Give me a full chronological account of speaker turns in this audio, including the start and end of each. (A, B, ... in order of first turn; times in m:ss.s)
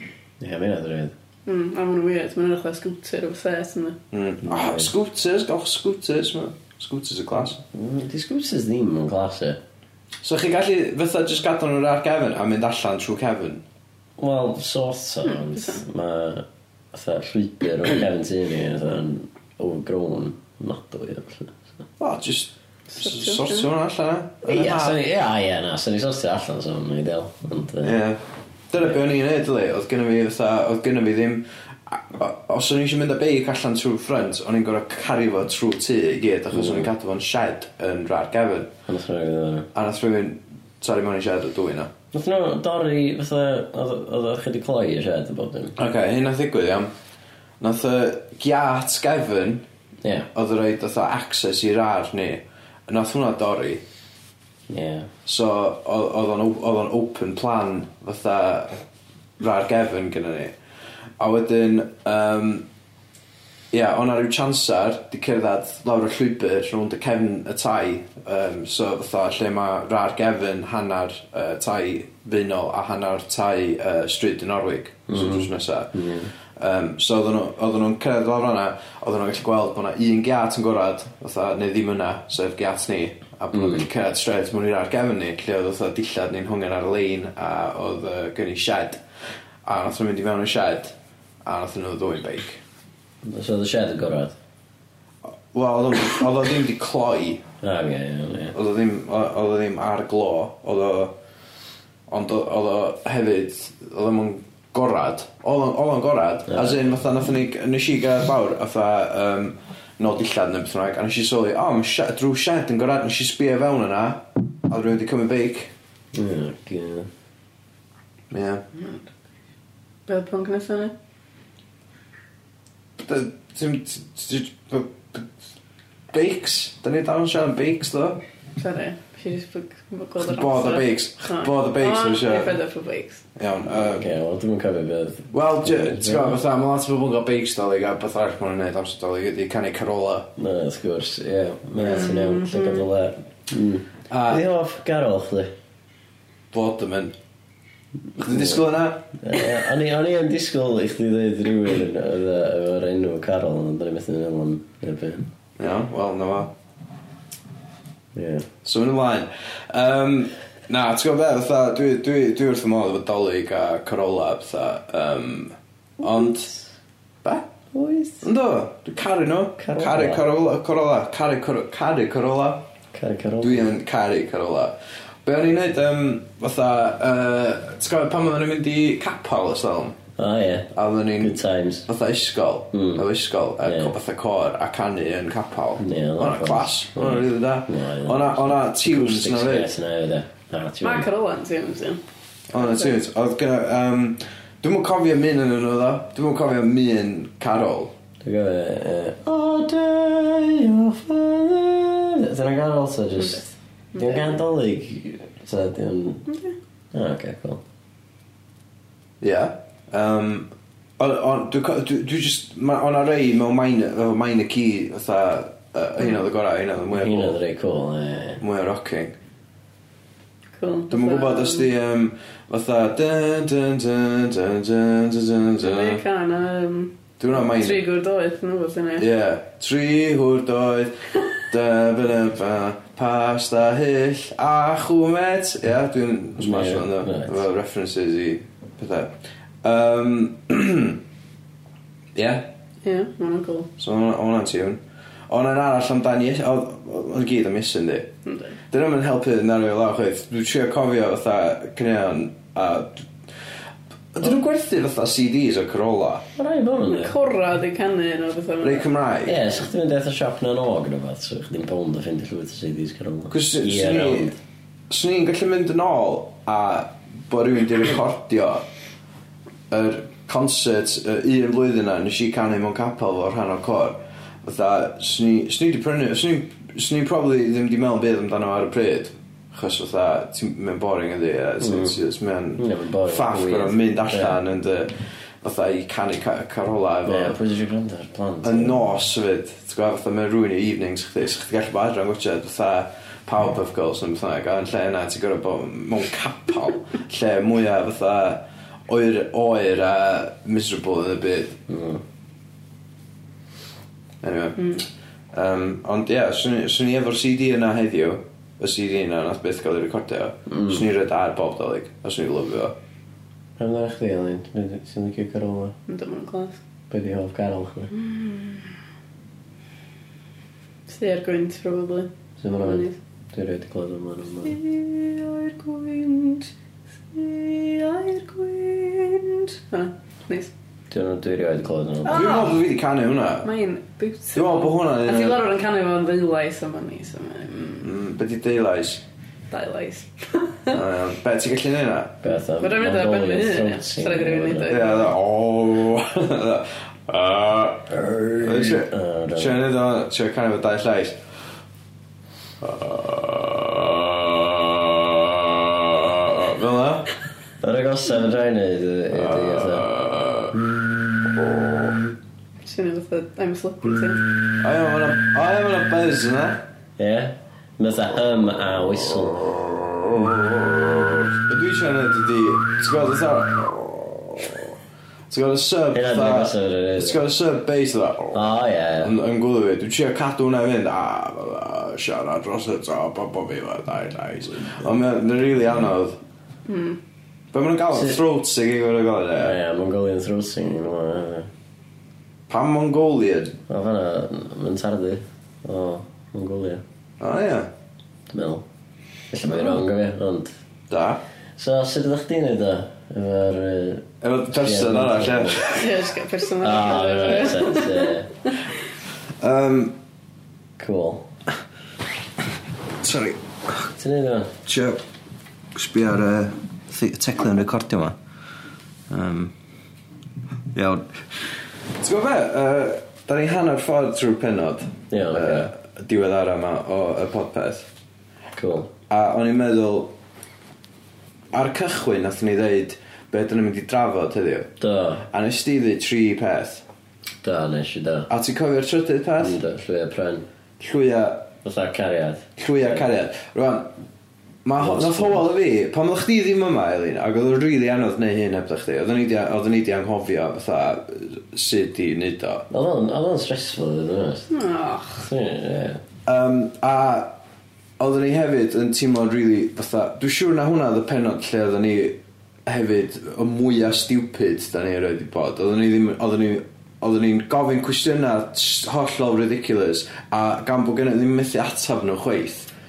0:00.4-0:01.1 A
0:01.4-0:04.0 B
0:04.1-0:07.6 C
0:04.4-0:04.9 A
0:07.7-0:09.6 A
0:10.2-0:13.6 C
0:14.2-0:21.7 A
0:15.2-0:15.8 B
0:22.0-0:25.0 C
0:22.9-0:23.7 B
0:24.4-0:28.0 A
0:27.8-0:28.2 C
0:28.7-0:38.7 C
0:36.5-0:36.9 A
0:38.9-0:39.7 A
0:39.7-0:41.9 C
0:42.1-0:45.8 A
0:45.8-0:46.9 C
0:47.6-0:49.6 C
0:50.0-0:50.3 A
0:50.3-0:53.8 C
0:54.7-0:55.1 A
0:55.2-0:58.8 C
0:59.4-1:00.6 C
1:01.2-1:02.6 C
1:03.7-1:15.9 C
1:15.1-1:16.3 A
1:16.6-1:29.0 C
1:23.5-1:23.9 A
1:29.6-1:32.6 C
1:33.2-1:34.3 A
1:35.5-1:37.4 C
1:37.6-1:38.6 A
1:38.5-1:41.2 C
1:42.1-1:55.7 C
1:46.5-1:46.8 A
1:56.1-1:57.1 A
1:58.3-1:58.6 C
1:58.8-1:59.0 B
2:00.1-2:00.9 B
2:03.0-2:05.3 C
2:06.1-2:08.2 C
2:08.6-2:13.2 B
2:10.2-2:12.6 C
2:13.4-2:14.1 C
2:13.7-2:16.4 A
2:15.3-2:20.3 C
2:20.4-2:25.5 A
2:21.8-2:22.9 B
2:24.1-2:24.4 C
2:26.5-2:27.2 C
2:28.2-2:29.1 C
2:28.2-2:28.6 A
2:29.2-2:35.3 A
2:35.6-2:36.5 C
2:38.2-2:38.5 A
2:38.6-2:46.5 C
2:47.2-2:47.5 C
2:47.7-2:48.3 A
2:48.2-2:52.7 C
2:49.6-2:50.2 A
2:52.9-2:53.7 A
2:53.4-3:00.0 C
3:00.2-3:01.8 A
3:00.7-3:09.7 C
3:02.7-3:03.1 A
3:03.6-3:03.9 A
3:05.8-3:11.1 A
3:10.8-3:12.0 B
3:12.5-3:17.9 C
3:12.5-3:13.0 B
3:18.2-3:26.2 A
3:23.2-3:23.4 B
3:23.9-3:24.4 B
3:26.3-3:26.6 B
3:26.9-3:27.6 A
3:29.2-3:37.4 C
3:36.9-3:38.4 A
3:38.4-3:39.2 C
3:40.6-3:41.7 B
3:40.9-3:46.0 C
3:45.6-3:49.1 B
3:47.2-3:47.8 C
3:49.0-4:01.0 C
3:56.4-3:57.4 A
4:02.2-4:02.5 C
4:02.8-4:03.7 B
4:03.8-4:08.1 C
4:08.2-4:08.6 B
4:08.7-4:13.1 C
4:14.2-4:16.2 C
4:16.4-4:17.1 A
4:16.9-4:18.9 B
4:18.6-4:19.5 C
4:19.2-4:24.4 A
4:23.3-4:24.3 C
4:24.9-4:28.6 C
4:29.7-4:47.4 C
4:41.6-4:42.0 A
4:42.6-4:44.4 A
4:47.1-4:48.8 A
4:48.4-5:01.6 C
5:01.7-5:02.0 A
5:04.2-5:04.8 C
5:05.3-5:12.7 C
5:10.5-5:10.8 A
5:13.6-5:15.7 A
5:15.9-5:16.6 B
5:16.9-5:17.9 A
5:17.9-5:18.7 B
5:20.9-5:23.0 B
5:22.4-5:24.6 A
5:24.4-5:26.5 B
5:27.1-5:30.5 B
5:30.9-5:32.4 A
5:32.0-5:32.6 B
5:32.1-5:33.5 C
5:33.4-5:37.9 B
5:34.3-5:35.4 C
5:37.8-5:39.0 C
5:39.5-5:40.8 B
5:40.7-5:42.2 C
5:42.2-5:44.8 A
5:42.6-5:45.1 B
5:44.7-5:51.2 C
5:48.2-5:49.6 A
5:52.6-5:57.1 C
5:57.6-5:59.9 A
5:59.1-6:00.6 C
6:01.3-6:01.9 C
6:02.6-6:04.2 B
6:04.6-6:06.6 C
6:07.0-6:09.6 A
6:09.8-6:14.8 C
6:15.3-6:18.4 C
6:15.9-6:17.2 A
6:18.3-6:19.1 A
6:19.0-6:26.2 C
6:26.7-6:27.0 B
6:27.5-6:29.6 C
6:27.9-6:28.2 A
6:29.4-6:31.5 A
6:32.5-6:33.6 C
6:33.7-6:36.8 A
6:37.2-6:37.7 C
6:38.3-6:38.6 A
6:39.3-6:40.6 A
6:40.9-6:41.2 C
6:41.6-6:45.7 A
6:44.2-6:46.0 C
6:45.7-6:48.2 B
6:46.6-6:48.3 A
6:49.4-6:50.0 C
6:50.8-6:51.3 A
6:53.0-6:53.4 C
6:53.9-6:54.6 A
6:54.7-6:55.0 C
6:55.7-6:58.2 C
6:59.1-6:59.5 C
7:00.7-7:01.2 C
7:01.9-7:07.9 C
7:05.1-7:05.7 A
7:08.6-7:08.9 A
7:09.1-7:10.1 C
7:11.5-7:14.7 C
7:14.8-7:15.2 A
7:15.3-7:16.8 C
7:17.4-7:18.3 A
7:18.3-7:19.6 C
7:19.4-7:20.4 A
7:20.8-7:21.5 C
7:21.6-7:22.5 A
7:22.6-7:23.9 C
7:24.6-7:32.7 C
7:24.8-7:25.4 A
7:32.7-7:34.5 A
7:34.5-7:35.2 B
7:35.2-7:36.0 A
7:36.2-7:37.3 C
7:38.0-7:52.7 C